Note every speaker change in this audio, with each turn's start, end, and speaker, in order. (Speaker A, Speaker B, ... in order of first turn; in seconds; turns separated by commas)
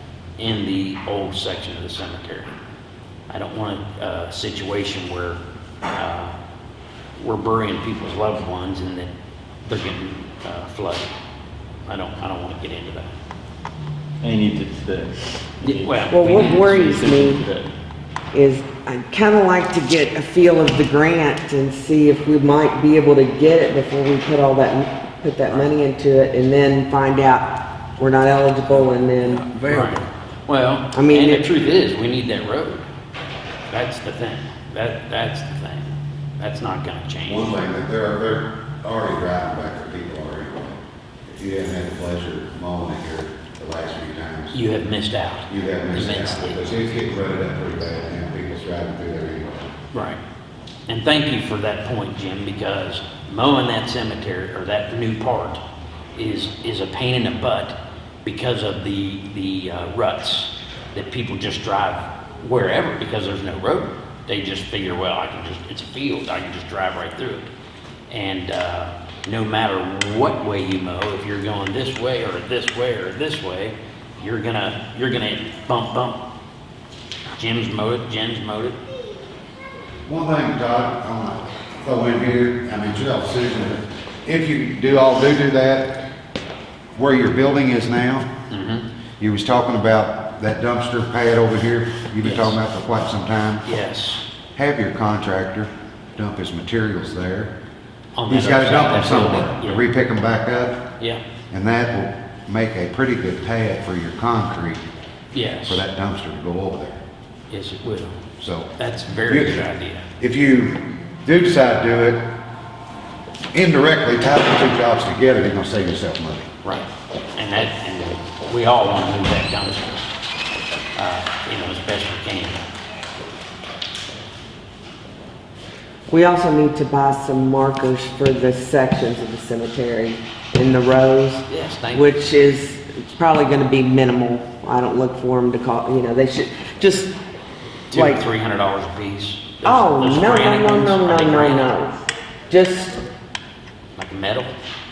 Speaker A: 0.4-2.5, Speaker A: 3.3-5.4, Speaker A: 5.9-6.3, Speaker A: 7.2-9.1, Speaker A: 9.7-11.1, Speaker A: 11.9-13.1, Speaker B: 14.2-17.7, Speaker A: 15.6-16.5, Speaker C: 16.1-17.4, Speaker C: 18.3-30.0, Speaker A: 29.7-32.9, Speaker C: 30.9-31.5, Speaker A: 33.7-37.6, Speaker D: 37.3-44.6, Speaker A: 44.5-46.7, Speaker D: 45.5-49.5, Speaker A: 49.9-50.2, Speaker A: 50.9-55.6, Speaker A: 56.1-67.5, Speaker A: 68.1-76.2, Speaker A: 77.4-78.8, Speaker D: 80.1-86.1, Speaker D: 87.0-88.3, Speaker A: 88.5-88.9, Speaker D: 89.2-93.7, Speaker A: 92.2-92.6, Speaker A: 93.7-94.2, Speaker D: 94.6-97.5, Speaker A: 98.2-99.9, Speaker D: 98.3-100.9, Speaker D: 101.5-104.8, Speaker A: 105.3-105.8, Speaker D: 105.7-107.0, Speaker A: 107.5-108.2, Speaker D: 108.4-108.7, Speaker A: 108.8-110.1, Speaker D: 109.3-109.7, Speaker D: 110.2-112.3, Speaker D: 113.5-116.5, Speaker A: 116.6-120.1, Speaker A: 121.0-122.7, Speaker C: 126.1-137.1, Speaker A: 131.5-132.3, Speaker A: 137.9-141.7, Speaker C: 137.9-138.2, Speaker C: 139.6-143.0, Speaker A: 144.0-144.5